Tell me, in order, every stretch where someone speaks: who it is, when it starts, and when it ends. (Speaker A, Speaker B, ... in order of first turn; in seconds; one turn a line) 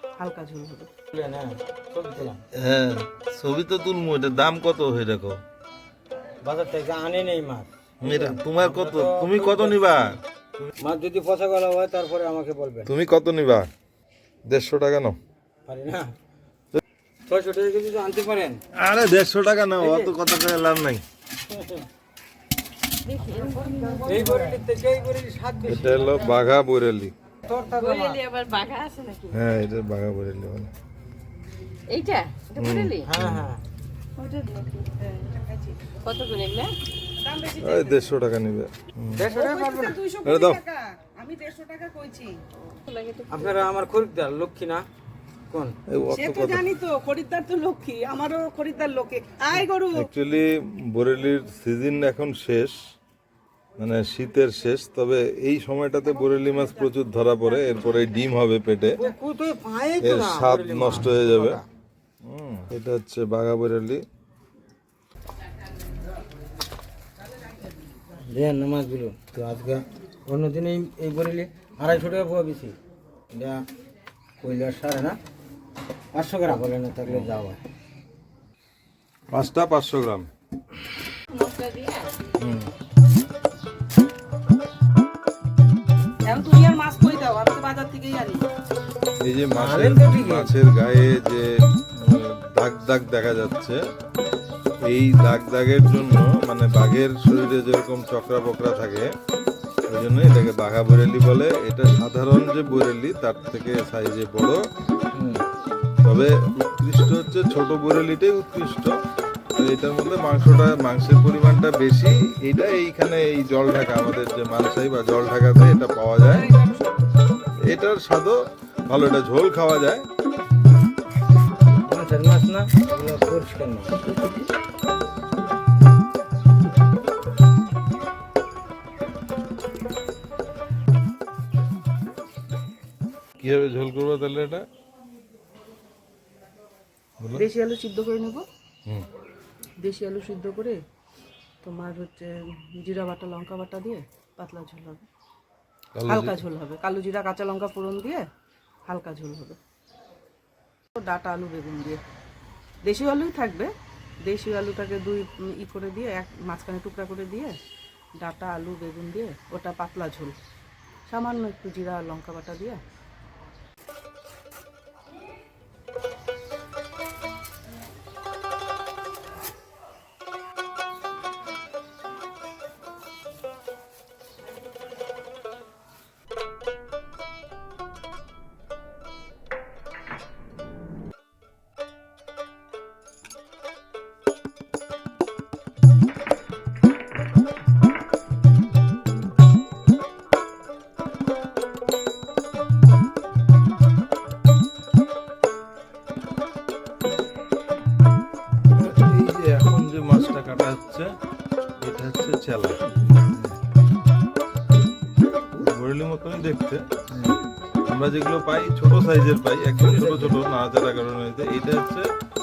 Speaker A: 0.2-0.9
Speaker B: 1.1-2.4
Speaker C: 2.5-5.4
Speaker B: 6.4-10.2
Speaker C: 8.0-10.7
Speaker B: 10.8-12.9
Speaker C: 12.9-13.7
Speaker C: 14.5-15.2
Speaker B: 15.7-16.1
Speaker B: 17.2-18.6
Speaker C: 18.8-21.0
Speaker B: 19.8-20.1
Speaker B: 21.5-21.9
Speaker D: 23.1-24.6
Speaker B: 24.0-26.3
Speaker C: 25.6-27.1
Speaker B: 27.5-28.2
Speaker D: 27.7-29.4
Speaker C: 29.3-30.7
Speaker D: 31.9-33.1
Speaker C: 32.6-33.5
Speaker B: 33.0-33.6
Speaker A: 34.2-35.8
Speaker D: 36.0-36.8
Speaker A: 37.2-38.1
Speaker C: 37.6-39.3
Speaker B: 39.2-40.0
Speaker A: 39.3-42.4
Speaker C: 40.2-40.6
Speaker D: 42.6-43.7
Speaker B: 43.3-44.8
Speaker B: 45.5-45.8
Speaker C: 45.9-46.7
Speaker A: 46.1-50.1
Speaker C: 49.9-52.8
Speaker C: 53.8-59.0
Speaker B: 59.0-61.6
Speaker C: 60.0-61.6
Speaker C: 62.2-64.0
Speaker B: 68.3-72.8
Speaker B: 73.3-73.6
Speaker B: 74.4-75.2
Speaker B: 76.1-77.6
Speaker C: 77.0-77.3
Speaker C: 79.3-80.3
Speaker D: 81.3-82.1
Speaker A: 86.2-88.4
Speaker C: 89.2-91.5
Speaker B: 89.5-90.5
Speaker C: 92.0-93.8
Speaker C: 94.9-99.1
Speaker C: 99.9-104.6
Speaker B: 105.1-105.4
Speaker C: 106.0-108.9
Speaker C: 109.5-116.5
Speaker A: 116.3-116.8
Speaker C: 117.7-118.4
Speaker C: 118.9-120.0
Speaker B: 121.8-124.0
Speaker C: 133.4-134.6
Speaker A: 137.3-138.4
Speaker A: 139.8-140.8
Speaker A: 141.6-145.1
Speaker C: 145.9-146.4
Speaker A: 146.1-148.2
Speaker A: 148.8-149.6
Speaker A: 150.9-152.0
Speaker A: 152.8-153.7
Speaker A: 154.2-157.6
Speaker A: 158.2-160.3
Speaker A: 161.1-162.8
Speaker C: 198.8-201.1
Speaker C: 201.8-202.8
Speaker C: 205.6-206.8
Speaker B: 207.1-207.4
Speaker C: 207.9-212.1
Speaker B: 209.8-210.4